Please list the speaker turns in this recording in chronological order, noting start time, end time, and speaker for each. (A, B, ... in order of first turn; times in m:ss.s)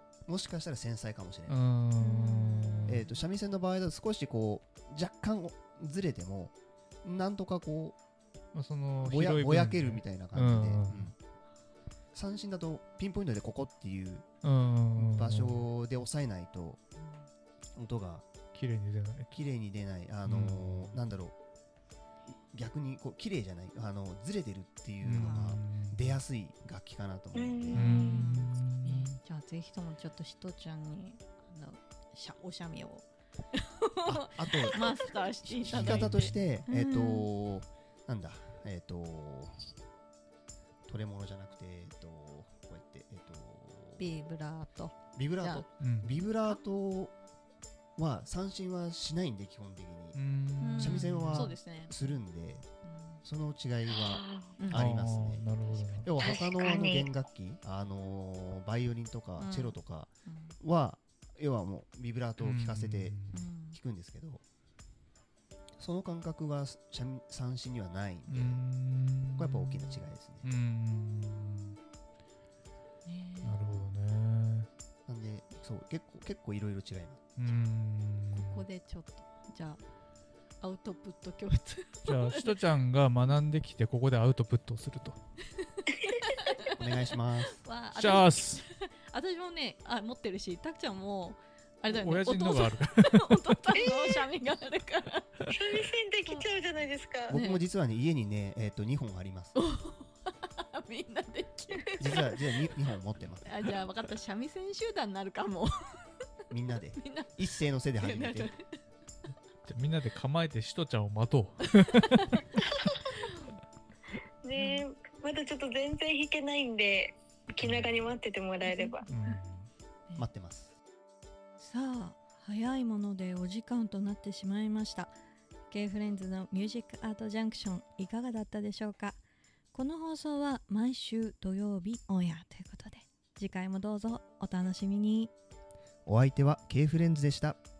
0:00.2-0:01.6 A
0:01.5-0:03.0 B
0:02.0-0:03.1 C
0:02.9-0:08.0 A
0:08.5-0:11.1 B
0:09.0-0:11.1 A
0:12.1-0:14.2 A
0:14.4-0:15.6 B
0:14.9-0:16.8 A
0:17.8-0:18.2 A
0:18.5-0:19.4 B
0:19.3-0:21.4 A
0:20.2-0:21.0 B
0:22.5-0:27.9 A
0:25.0-0:26.2 B
0:25.1-0:25.6 C
0:27.3-0:28.1 D
0:27.7-0:37.2 C
0:27.7-0:29.2 B
0:34.0-0:39.6 A
0:35.7-0:36.5 B
0:40.9-0:44.2 A
0:44.0-0:45.7 C
0:45.1-0:47.1 A
0:45.8-0:46.2 B
0:48.0-0:50.2 A
0:50.1-0:51.5 B
0:50.6-0:52.1 C
0:50.8-0:52.6 A
0:52.8-0:53.2 C
0:53.2-0:55.5 A
0:53.9-0:54.6 D
0:54.7-0:56.1 B
0:55.6-0:56.3 C
0:56.0-1:04.4 A
0:56.2-0:57.1 D
0:59.4-1:00.6 C
1:02.4-1:03.4 B
1:03.3-1:03.8 C
1:05.8-1:08.7 A
1:08.3-1:11.8 B
1:09.3-1:10.5 A
1:13.0-1:13.6 C
1:13.4-1:14.7 B
1:15.1-1:17.3 A
1:17.4-1:18.6 B
1:18.3-1:19.8 C
1:20.6-1:22.6 C
1:22.0-1:25.2 B
1:25.6-1:35.5 C
1:26.8-1:27.6 A
1:27.9-1:28.6 B
1:31.9-1:33.4 B
1:33.7-1:34.2 D
1:35.5-1:37.4 D
1:37.3-1:39.5 A
1:37.3-1:37.6 C
1:39.6-1:42.7 C
1:42.0-1:43.6 A
1:43.4-1:46.1 C
1:46.5-1:48.5 A
1:47.0-1:48.6 C
1:49.6-1:52.4 B
1:51.9-1:52.4 C
1:54.4-1:59.1 D
1:54.6-1:54.8 C
1:58.6-1:59.4 C
1:59.1-1:59.7 B
2:00.2-2:00.7 A
2:01.6-2:05.1 C
2:05.7-2:09.2 C
2:09.7-2:15.3 C
2:16.0-2:17.6 A